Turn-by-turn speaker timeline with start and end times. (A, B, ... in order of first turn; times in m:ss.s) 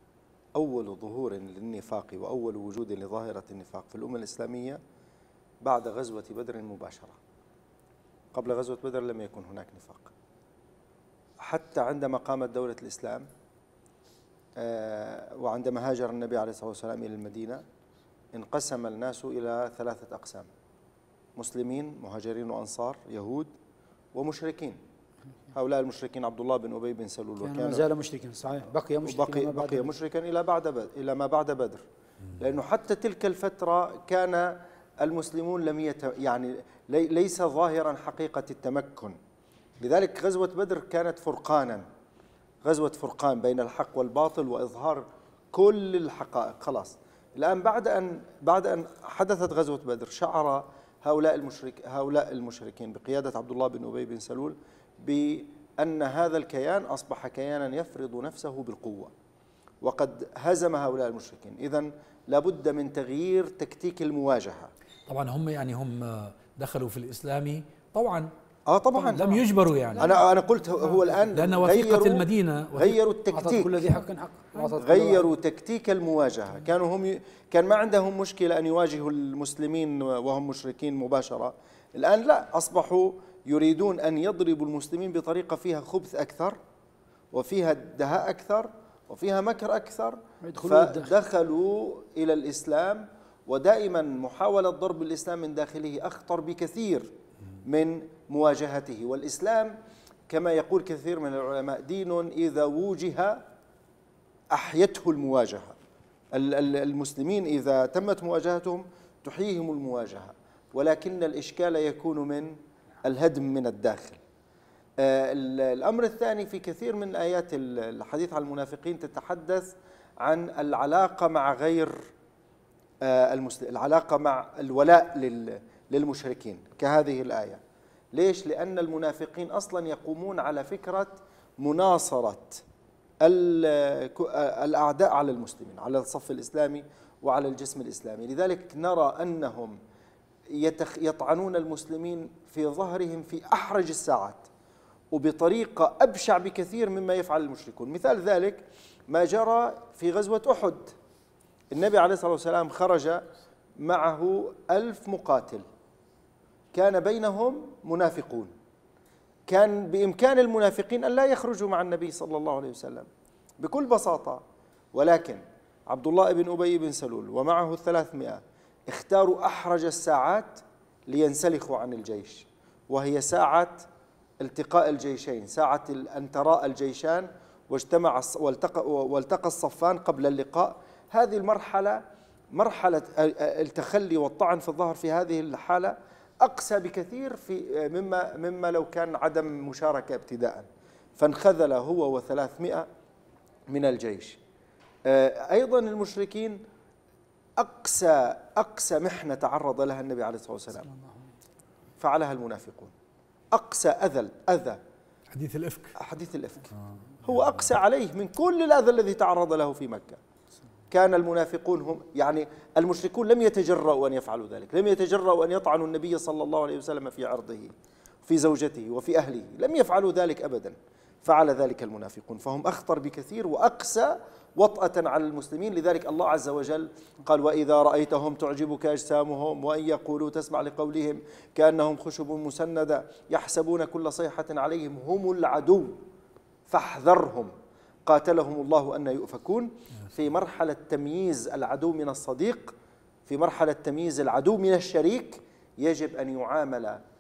0:00.6-0:04.8 A
0:05.6-0:07.2 A
0:08.3-0:10.1 A
0:11.4-0:13.3 A
0:14.6-0:17.6 A
0:18.3-0:20.5 A
0:21.4-0:23.5 A
0:24.1-0:24.8 A
0:25.5-0:27.9 A
0:27.4-0:29.9 B
0:29.0-0:31.8 A
0:32.3-0:39.2 A
0:39.8-0:41.8 A
0:42.6-0:59.1 A
0:59.8-1:04.7 A
1:05.1-1:08.3 C
1:08.7-1:09.4 A
1:09.0-1:10.1 C
1:10.0-1:14.0 A
1:10.8-1:11.2 B
1:11.3-1:13.0 C
1:13.3-1:15.3 B
1:14.6-1:26.6 A
1:27.3-1:37.1 A
1:30.4-1:31.1 B
1:37.7-1:39.8 A
1:40.3-1:43.4 A
1:44.5-1:45.8 A
1:46.3-1:54.2 A
1:55.0-2:02.0 A
2:03.0-2:07.6 A
2:08.1-2:12.6 A
2:13.2-2:19.8 A
2:20.5-2:24.5 A
2:25.1-2:30.9 A
2:31.7-2:33.2 A
2:33.8-2:35.6 A
2:36.7-2:38.5 A
2:39.5-2:43.1 A
2:43.6-2:44.4 A
2:44.9-2:53.8 A
2:54.4-3:02.0 A
3:02.5-3:10.7 A
3:11.2-3:12.9 A
3:13.7-3:14.4 A
3:15.1-3:16.6 A
3:17.6-3:20.9 A
3:22.0-3:22.9 A
3:23.5-3:24.8 A
3:25.3-3:26.0 C
3:26.0-3:30.2 A
3:30.9-3:37.7 A
3:38.3-3:56.0 A
3:56.7-3:57.5 A
3:58.1-4:02.7 A
4:03.3-4:07.0 A